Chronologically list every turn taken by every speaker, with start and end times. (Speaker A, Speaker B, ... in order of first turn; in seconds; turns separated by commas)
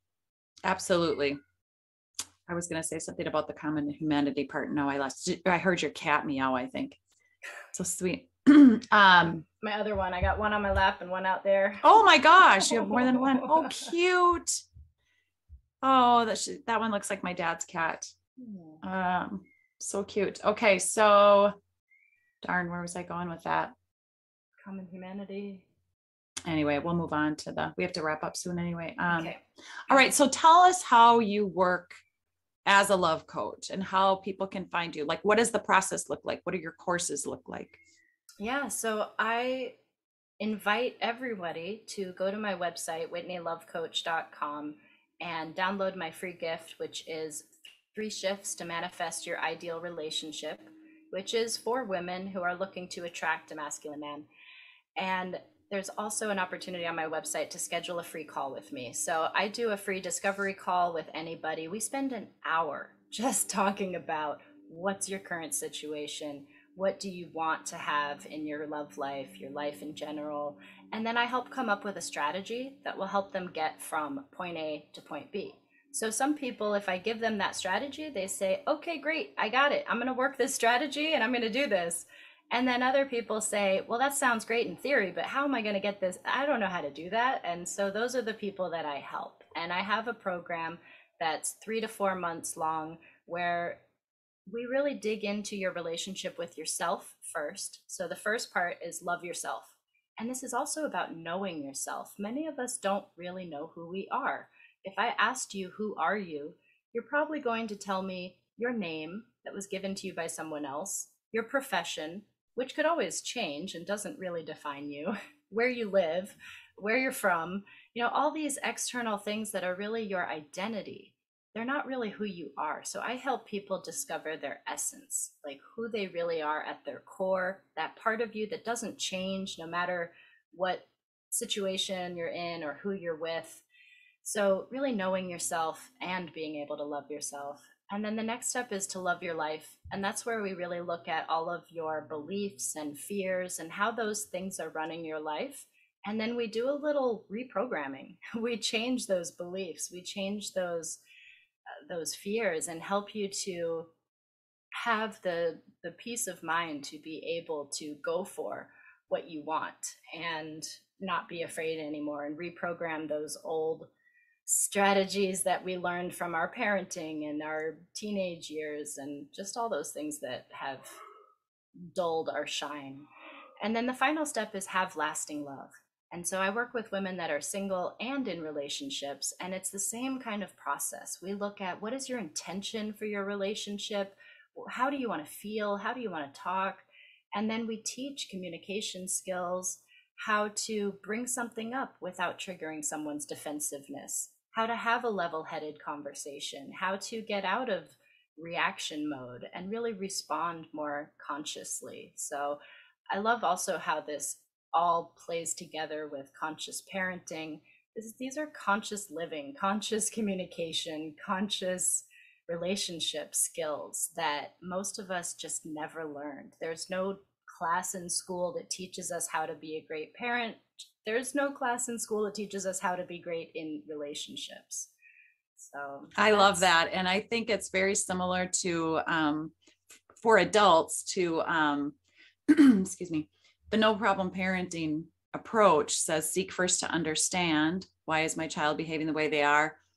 Speaker A: 0.7-1.4, Speaker A: 2.5-7.0, Speaker A: 7.7-9.5, Speaker B: 9.6-13.8, Speaker A: 11.8-14.6, Speaker A: 15.8-18.1, Speaker B: 18.4-18.8, Speaker A: 18.8-21.6, Speaker A: 22.4-23.7, Speaker B: 24.6-25.7, Speaker A: 26.5-29.4, Speaker B: 29.1-29.4, Speaker A: 29.9-32.0, Speaker A: 32.7-37.8, Speaker B: 38.4-39.8, Speaker B: 40.4-54.3, Speaker B: 55.0-93.8, Speaker B: 94.5-133.6, Speaker B: 134.2-151.0, Speaker B: 151.9-153.9, Speaker B: 154.7-163.9, Speaker B: 164.5-170.9, Speaker B: 171.8-173.1, Speaker B: 173.6-202.6, Speaker B: 203.1-224.9, Speaker B: 225.6-226.7, Speaker A: 226.2-229.6, Speaker A: 230.2-232.0, Speaker A: 232.5-239.8